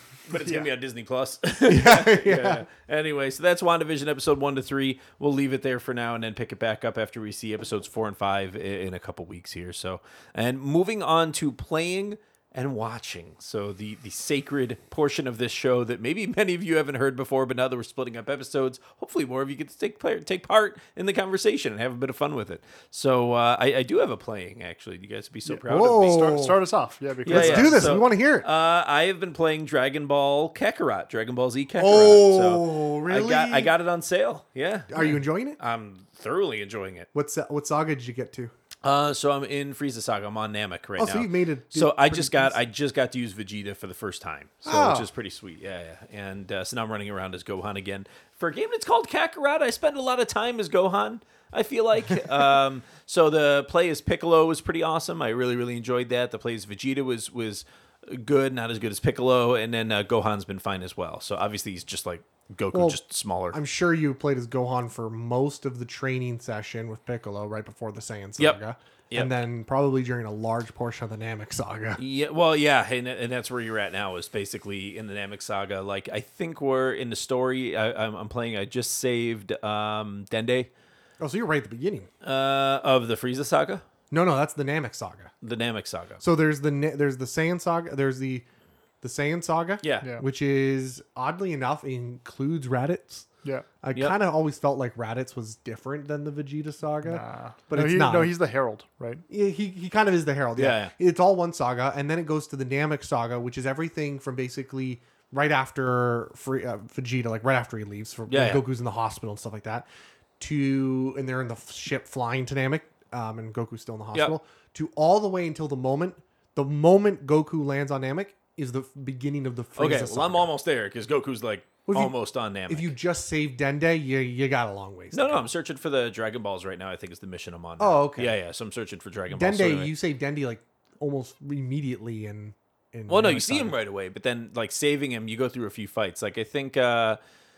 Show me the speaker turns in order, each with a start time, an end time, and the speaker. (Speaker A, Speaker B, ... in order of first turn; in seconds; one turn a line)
Speaker A: 0.3-26.4
Speaker B: 1.7-2.7
Speaker C: 25.5-27.9
Speaker B: 25.7-26.6
Speaker B: 27.3-28.5
Speaker A: 27.3-37.1
Speaker B: 31.8-33.7
Speaker B: 34.9-35.6
Speaker B: 37.1-38.5
Speaker A: 38.8-63.6
Speaker B: 41.0-42.6
Speaker B: 44.6-45.1
Speaker B: 62.7-63.0
Speaker B: 63.5-72.0
Speaker A: 72.0-80.7
Speaker B: 81.2-82.1
Speaker A: 82.2-83.8
Speaker B: 84.1-85.3
Speaker A: 85.4-86.2
Speaker B: 86.2-88.5
Speaker B: 89.0-93.3
Speaker A: 89.8-90.1
Speaker B: 93.8-98.4
Speaker C: 97.0-99.2
Speaker B: 99.3-109.9
Speaker A: 100.6-100.9
Speaker A: 108.3-108.6
Speaker B: 110.4-120.5
Speaker A: 119.8-122.9
Speaker B: 121.9-122.1
Speaker B: 122.7-125.5
Speaker A: 125.1-129.9
Speaker B: 127.8-128.3
Speaker B: 129.3-133.8
Speaker A: 133.1-137.2